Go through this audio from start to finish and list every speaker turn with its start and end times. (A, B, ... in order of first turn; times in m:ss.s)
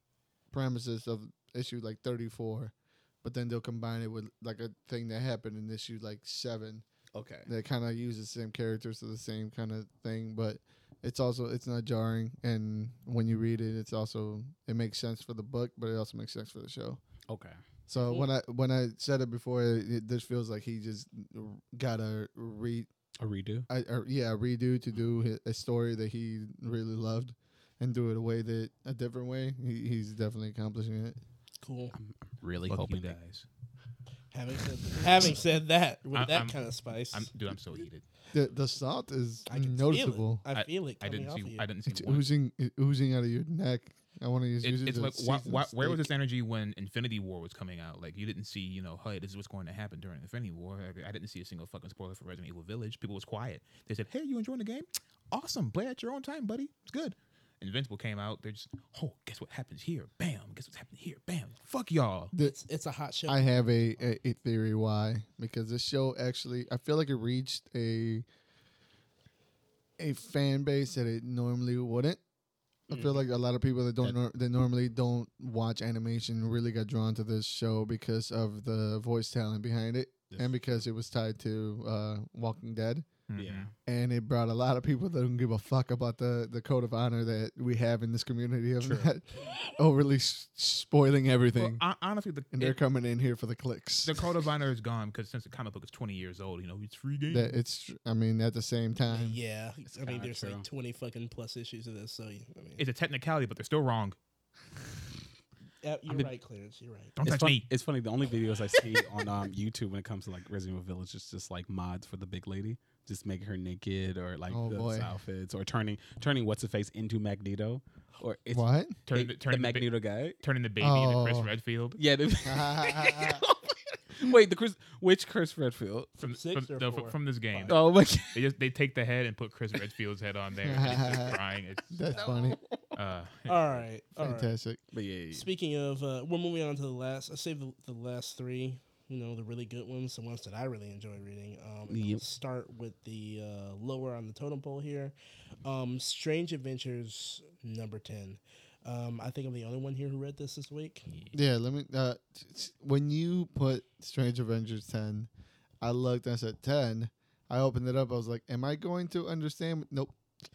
0:00.5-0:06.8 A
0:07.1-0:07.5 B
0:07.4-0:17.0 A
0:17.3-0:17.6 B
0:17.9-0:22.9 A
0:23.2-0:23.7 B
0:23.7-0:31.2 A
0:31.6-0:31.9 C
0:31.9-0:33.2 B
0:32.7-0:33.4 D
0:34.3-0:37.3 C
0:36.1-0:38.0 D
0:38.3-0:40.4 A
0:39.5-0:41.7 C
0:40.5-0:42.3 D
0:41.9-0:46.1 A
0:44.6-1:02.3 D
1:02.4-1:03.7 C
1:03.3-1:08.2 A
1:10.0-1:12.2 A
1:12.9-1:23.1 A
1:12.9-1:13.2 B
1:20.3-1:20.6 B
1:23.3-1:23.7 D
1:23.4-1:23.7 B
1:23.8-1:31.8 A
1:28.8-1:29.1 B
1:31.6-1:32.8 D
1:32.5-1:34.2 A
1:34.0-1:37.5 D
1:37.3-1:39.4 A
1:39.1-1:42.8 C
1:39.9-1:40.6 B
1:42.8-1:44.2 D
1:45.8-1:47.1 C
1:47.2-1:47.7 D
1:47.2-2:00.4 B
1:54.5-1:55.1 A
1:58.5-1:59.0 A
1:59.1-2:02.0 D
2:00.8-2:01.5 A
2:02.0-2:06.1 B
2:02.4-2:03.4 A
2:06.2-2:12.0 D
2:06.3-2:07.8 C
2:07.7-2:08.5 B
2:10.6-2:11.4 A
2:11.9-2:12.6 A
2:12.1-2:12.8 B
2:12.9-2:13.8 D
2:13.5-2:14.5 C
2:14.2-2:14.8 A
2:14.9-2:15.5 B
2:15.3-2:31.1 C
2:21.9-2:22.2 B
2:31.3-2:35.3 A
2:35.8-2:40.1 A